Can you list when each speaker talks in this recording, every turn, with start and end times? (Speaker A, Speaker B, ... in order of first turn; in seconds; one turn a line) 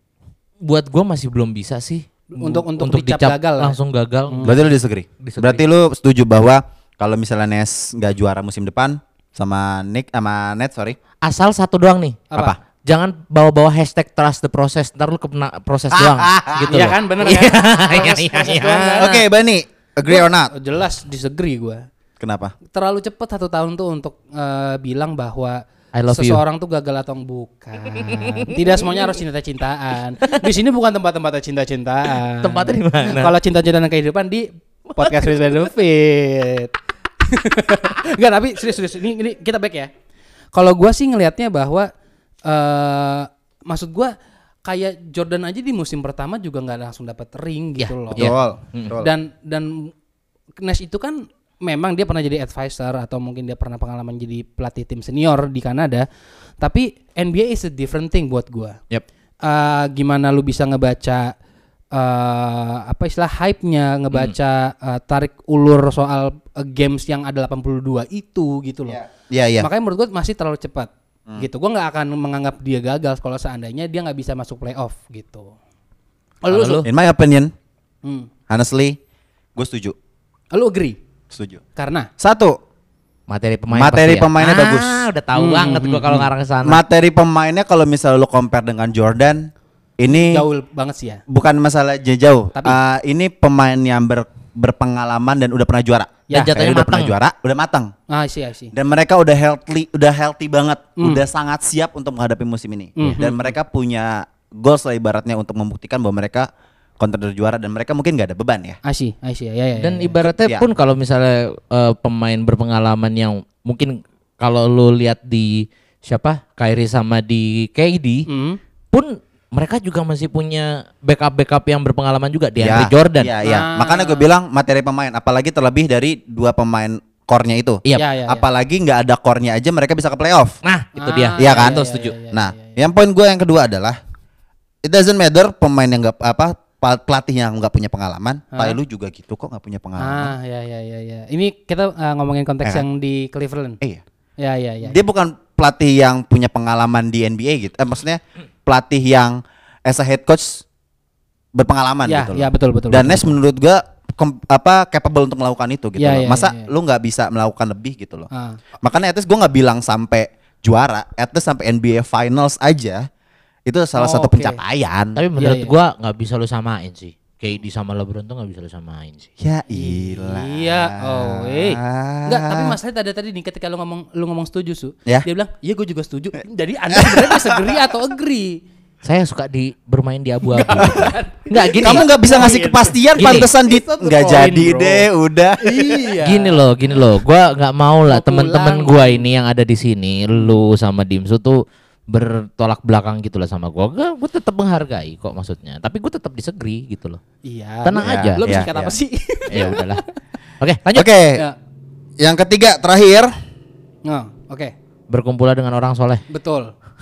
Speaker A: 0.6-4.6
Speaker B: 2.3-4.6
Speaker C: 4.4-11.0
Speaker A: 5.2-5.6
Speaker A: 11.2-12.3
Speaker B: 12.3-12.6
Speaker A: 12.8-19.1
Speaker C: 15.9-17.4
Speaker B: 16.7-19.2
Speaker C: 19.0-20.5
Speaker B: 20.1-21.9
Speaker C: 22.2-22.5
Speaker B: 22.6-36.7
Speaker A: 25.9-26.4
Speaker A: 28.2-29.0
Speaker A: 32.4-33.3
Speaker B: 37.2-39.9
Speaker B: 40.5-41.9
Speaker B: 42.5-44.1
Speaker B: 44.6-48.3
Speaker A: 47.8-49.0
Speaker C: 48.2-49.1
Speaker B: 49.0-49.9
Speaker B: 50.6-56.1
Speaker B: 56.6-58.8
Speaker B: 59.4-61.3
Speaker B: 61.9-69.0
Speaker C: 68.9-69.7
Speaker B: 69.6-75.5
Speaker B: 76.4-76.8
Speaker A: 76.5-76.9
Speaker C: 76.8-77.5
Speaker B: 78.0-78.3
Speaker C: 78.5-79.0
Speaker C: 79.6-80.0
Speaker B: 80.5-81.0
Speaker C: 81.3-81.6
Speaker B: 81.8-82.1
Speaker C: 82.2-82.6
Speaker A: 83.3-86.8
Speaker C: 83.7-85.0
Speaker B: 85.4-86.3
Speaker C: 86.7-90.5
Speaker B: 90.1-91.2
Speaker C: 91.3-97.9
Speaker A: 96.3-97.1
Speaker B: 98.1-98.7
Speaker C: 98.7-108.8
Speaker B: 101.0-101.2
Speaker B: 103.0-103.5
Speaker B: 108.8-110.2
Speaker A: 109.8-118.3
Speaker C: 110.2-110.7
Speaker B: 118.3-118.6
Speaker A: 118.9-123.3
Speaker C: 122.6-130.6
Speaker B: 123.4-124.3
Speaker B: 128.0-128.4
Speaker A: 130.6-132.1
Speaker B: 131.0-132.8
Speaker C: 131.4-134.0
Speaker C: 134.8-140.3
Speaker B: 138.5-138.8
Speaker B: 140.0-143.8
Speaker B: 144.4-145.0
Speaker C: 144.8-150.7
Speaker C: 151.6-158.3
Speaker B: 152.1-153.4
Speaker B: 156.0-156.7
Speaker B: 158.3-158.6
Speaker C: 158.8-163.1
Speaker C: 163.7-165.2
Speaker B: 163.9-164.6
Speaker A: 165.2-169.3
Speaker B: 165.4-165.7
Speaker C: 169.4-172.8
Speaker B: 169.7-178.6
Speaker C: 176.9-177.6
Speaker A: 179.0-182.1
Speaker B: 180.5-185.1
Speaker C: 181.8-186.1
Speaker A: 183.2-183.5
Speaker B: 185.6-186.7
Speaker A: 186.2-197.2
Speaker B: 188.1-189.3
Speaker B: 197.4-200.1
Speaker A: 197.8-198.4
Speaker C: 198.0-198.9
Speaker A: 199.5-200.0
Speaker A: 200.6-201.1
Speaker C: 200.9-201.4
Speaker C: 202.2-203.3
Speaker B: 204.1-204.7
Speaker A: 205.1-206.2
Speaker B: 206.3-206.7